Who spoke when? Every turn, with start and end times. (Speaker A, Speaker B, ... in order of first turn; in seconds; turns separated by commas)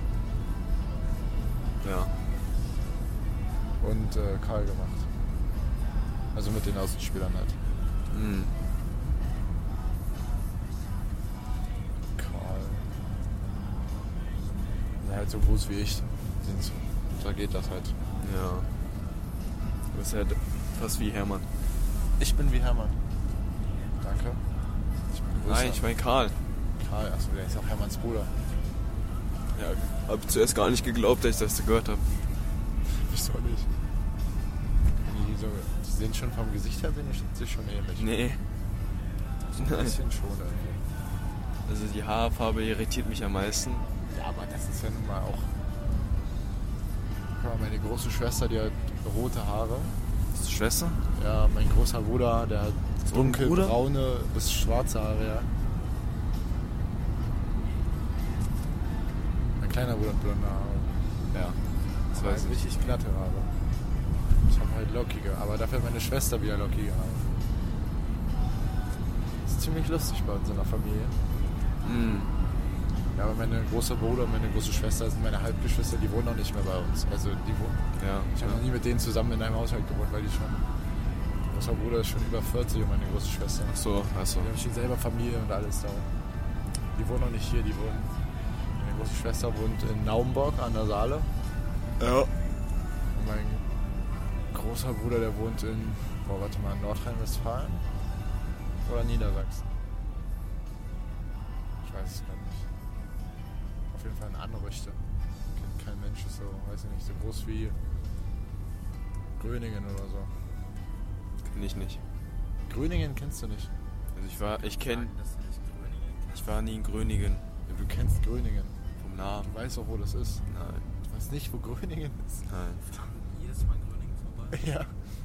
Speaker A: 1.8-2.1, Speaker B: 3.8-5.1, Speaker B: 6.3-7.6, Speaker A: 8.1-8.5, Speaker B: 12.2-12.9, Speaker B: 15.0-18.0, Speaker A: 18.2-18.7, Speaker A: 19.9-21.5, Speaker B: 22.2-23.0, Speaker B: 24.0-24.4, Speaker B: 25.1-25.9, Speaker A: 25.4-26.4, Speaker B: 26.8-28.3, Speaker A: 29.5-32.1, Speaker B: 32.8-33.7, Speaker B: 35.0-38.1, Speaker A: 38.0-38.4, Speaker B: 39.4-40.8, Speaker A: 39.6-40.0, Speaker A: 41.7-43.9, Speaker B: 44.1-45.5, Speaker B: 47.4-49.9, Speaker A: 50.3-51.0, Speaker B: 51.2-55.5, Speaker A: 53.1-53.8, Speaker B: 59.6-60.9, Speaker A: 61.3-61.6, Speaker B: 62.1-63.5, Speaker A: 62.1-62.6, Speaker B: 64.4-67.3, Speaker B: 69.5-71.2, Speaker A: 71.8-72.3, Speaker B: 73.2-77.8, Speaker A: 78.0-78.6, Speaker B: 78.3-80.7, Speaker B: 81.5-83.8, Speaker A: 83.7-84.5, Speaker B: 84.4-86.1, Speaker B: 86.9-88.1, Speaker B: 88.8-91.3, Speaker A: 92.0-92.3, Speaker B: 93.1-93.7, Speaker B: 94.5-97.9, Speaker B: 98.8-99.7, Speaker B: 101.8-102.7, Speaker B: 103.9-105.0, Speaker B: 105.5-107.8, Speaker B: 109.4-110.3, Speaker A: 111.4-112.0, Speaker B: 112.7-113.7, Speaker A: 114.2-115.1, Speaker C: 114.3-116.5, Speaker A: 116.3-117.5, Speaker B: 117.7-118.8, Speaker A: 119.0-119.5, Speaker B: 119.4-120.4, Speaker A: 120.5-120.9, Speaker B: 121.0-122.5, Speaker A: 122.5-122.8, Speaker C: 122.9-124.6, Speaker B: 124.5-125.0